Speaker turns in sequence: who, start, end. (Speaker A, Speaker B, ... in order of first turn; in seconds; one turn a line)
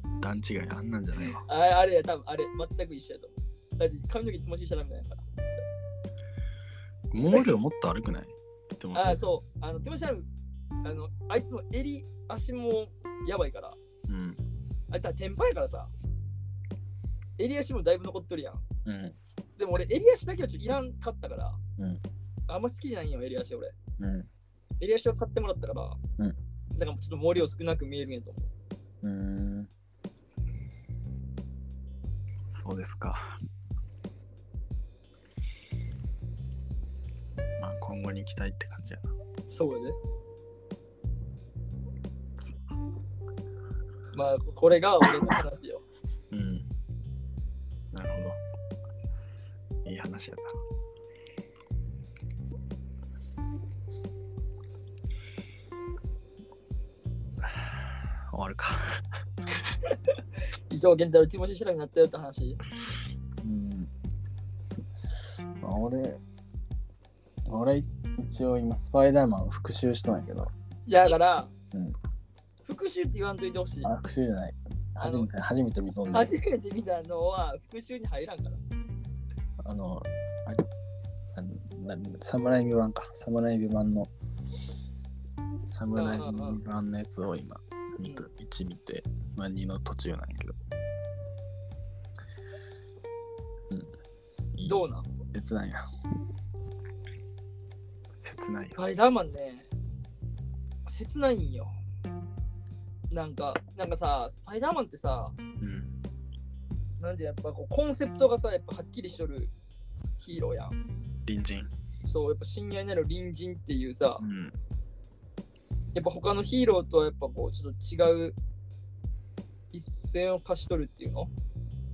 Speaker A: 0.2-1.4
Speaker B: 1.4-5.2
Speaker A: 7.1-9.3
Speaker B: 8.9-10.3
Speaker B: 10.8-13.8
Speaker A: 14.1-14.4
Speaker B: 14.9-15.9
Speaker B: 17.4-18.6
Speaker A: 18.9-19.2
Speaker B: 19.6-21.6
Speaker B: 22.5-23.7
Speaker A: 24.0-24.3
Speaker B: 24.8-26.0
Speaker B: 26.8-28.5
Speaker A: 29.0-29.7
Speaker A: 32.5-33.3
Speaker A: 37.6-39.1
Speaker B: 39.5-40.0
Speaker B: 44.1-45.8
Speaker A: 46.3-46.6
Speaker A: 47.9-48.4
Speaker A: 49.9-50.6
Speaker A: 57.4-59.0
Speaker B: 60.7-62.6
Speaker A: 63.4-63.9
Speaker A: 65.6-66.2
Speaker A: 67.5-70.5
Speaker B: 70.9-71.5
Speaker B: 72.7-73.9
Speaker A: 73.8-76.3
Speaker B: 75.0-75.3
Speaker B: 76.1-78.6
Speaker A: 79.6-80.7
Speaker A: 81.3-84.1
Speaker A: 85.7-90.6
Speaker B: 85.9-86.6
Speaker A: 94.5-95.8
Speaker B: 94.7-95.1
Speaker A: 98.2-98.8
Speaker B: 98.8-99.7
Speaker B: 100.9-101.7
Speaker B: 103.1-105.3
Speaker A: 105.6-105.9
Speaker B: 107.0-109.5
Speaker B: 110.2-110.8
Speaker A: 111.2-111.7
Speaker B: 112.0-114.2
Speaker A: 114.2-114.6
Speaker B: 116.0-118.4
Speaker B: 119.7-121.3